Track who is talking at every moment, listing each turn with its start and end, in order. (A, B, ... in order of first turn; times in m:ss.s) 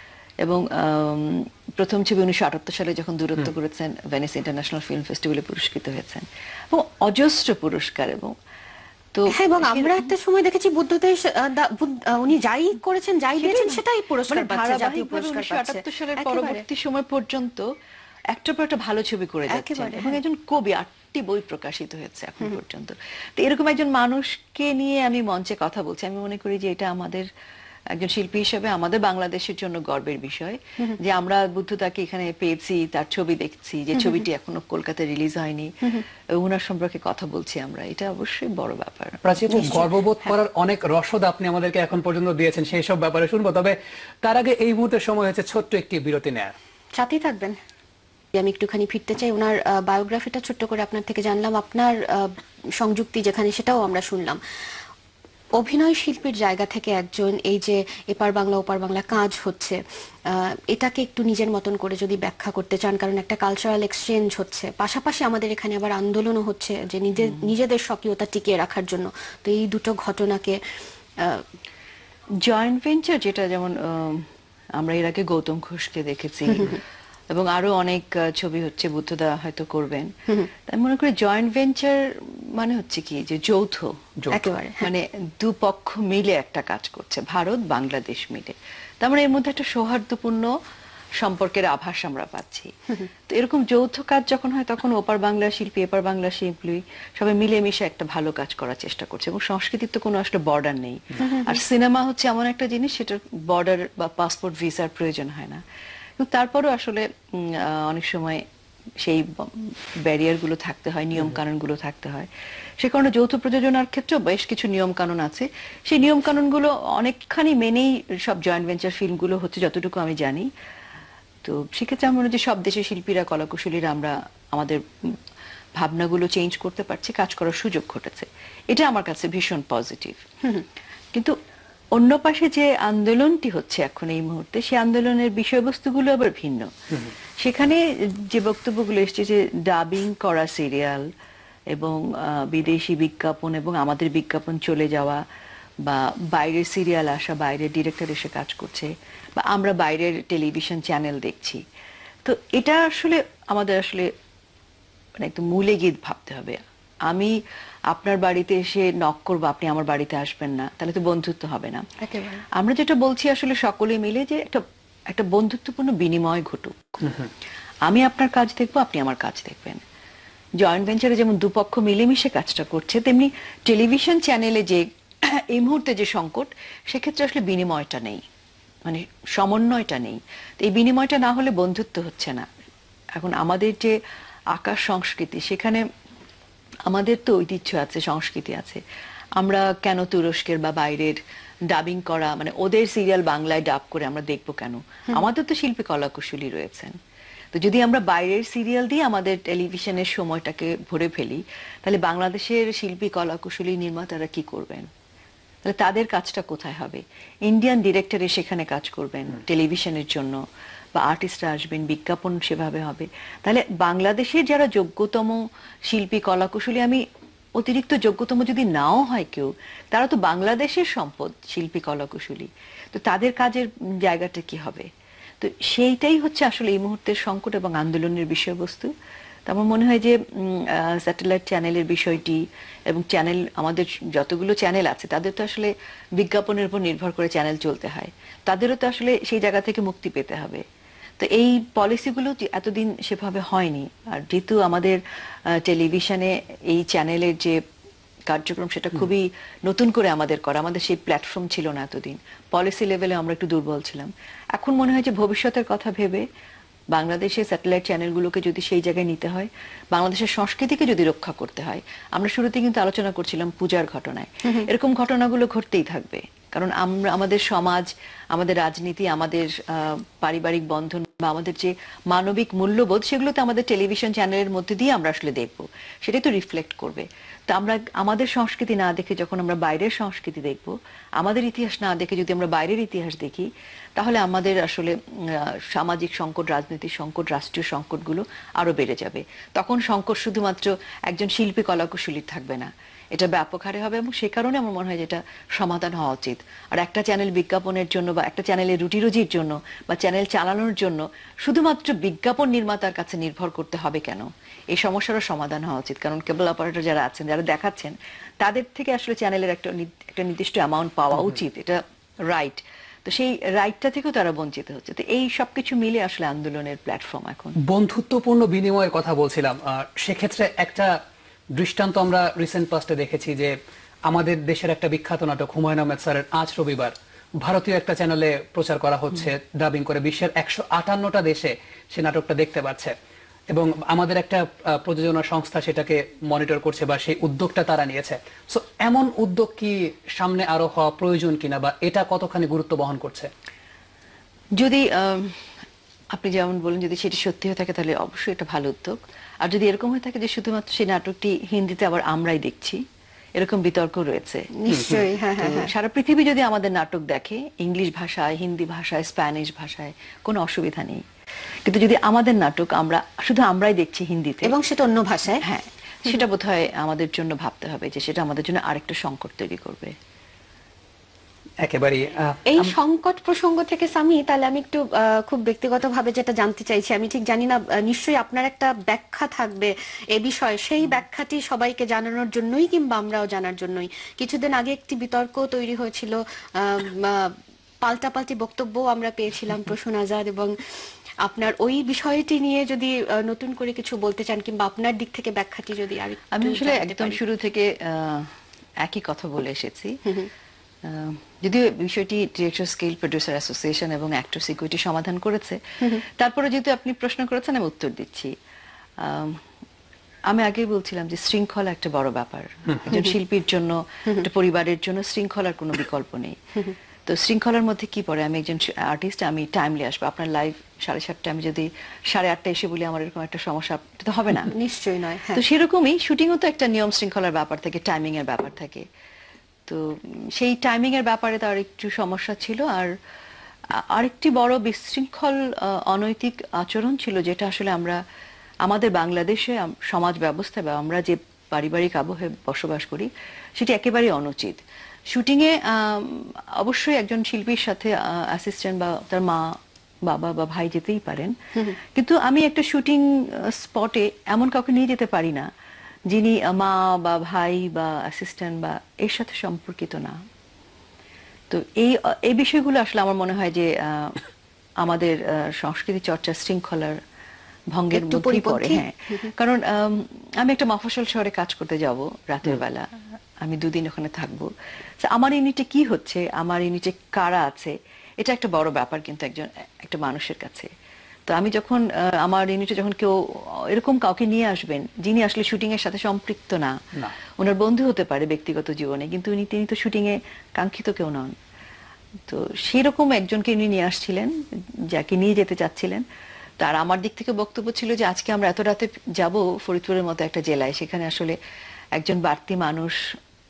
0:00.4-0:08.3 A
0:09.1-0:10.1 A
0:09.3-0:16.6 B
0:13.4-0:17.6 A
0:18.3-0:27.3 A
0:19.5-0:20.2 B
0:27.9-0:39.7 A
0:39.2-0:46.5 C
0:39.5-0:40.3 B
0:47.0-0:47.6 B
0:48.3-0:54.4 B
0:55.6-0:59.8 B
1:00.3-1:10.6 B
1:12.4-1:14.3 A
1:14.8-1:16.8 A
1:16.5-1:16.8 B
1:17.3-1:20.1 A
1:20.7-1:22.0 A
1:22.6-1:23.9 A
1:24.3-1:24.9 B
1:24.8-1:30.5 A
1:31.2-1:32.7 A
1:33.3-1:45.6 A
1:41.2-1:41.6 B
1:46.2-1:48.4 A
1:49.0-1:52.3 A
1:52.8-2:00.5 A
2:01.4-2:04.8 A
2:05.8-2:10.2 A
2:11.9-2:16.7 A
2:17.4-2:21.0 A
2:21.7-2:25.2 A
2:25.8-2:31.6 A
2:32.2-2:34.1 A
2:35.2-2:37.3 A
2:37.9-2:41.8 A
2:42.0-2:42.4 B
2:42.6-2:47.1 A
2:47.8-2:49.8 A
2:50.6-2:58.2 A
2:58.8-3:02.4 A
3:03.2-3:03.9 A
3:04.5-3:05.8 A
3:06.9-3:08.8 A
3:09.4-3:17.0 A
3:17.5-3:24.9 A
3:25.6-3:30.4 A
3:31.0-3:37.0 A
3:37.6-3:44.9 A
3:45.4-3:48.9 A
3:49.5-4:00.6 A
4:01.2-4:05.0 A
4:05.6-4:07.6 A
4:08.3-4:16.2 A
4:16.9-5:11.8 A
5:12.3-5:17.5 A
5:17.7-5:20.9 C
5:21.6-5:23.5 C
5:24.1-5:32.9 C
5:33.5-5:43.3 C
5:44.6-5:45.4 A
5:46.1-5:52.8 A
5:53.4-5:54.5 A
5:54.6-5:55.7 B
5:54.7-5:55.0 C
5:55.4-6:01.0 A
6:01.6-6:04.6 A
6:04.4-6:05.4 B
6:05.4-6:09.9 A
6:11.6-6:12.7 C
6:12.5-6:27.3 B
6:27.8-6:30.5 B
6:31.2-6:37.2 B
6:36.3-6:39.9 A
6:40.8-6:48.3 A
6:49.0-6:49.4 A
6:50.3-6:56.4 A
6:57.0-7:04.5 A
7:04.5-7:05.4 B
7:05.3-7:08.8 A
7:10.4-7:12.9 A
7:13.8-7:18.0 A
7:18.6-7:29.4 A
7:30.0-7:31.3 A
7:31.9-7:35.5 A
7:36.1-7:40.2 A
7:41.5-7:44.2 A
7:44.8-7:47.0 A
7:47.7-7:52.9 A
7:47.9-7:49.3 B
7:53.4-7:54.5 A
7:55.0-8:00.7 A
8:01.3-8:06.7 A
8:07.4-8:11.3 A
8:12.3-8:14.3 A
8:14.9-8:16.0 A
8:16.6-8:21.4 A
8:22.0-8:23.0 A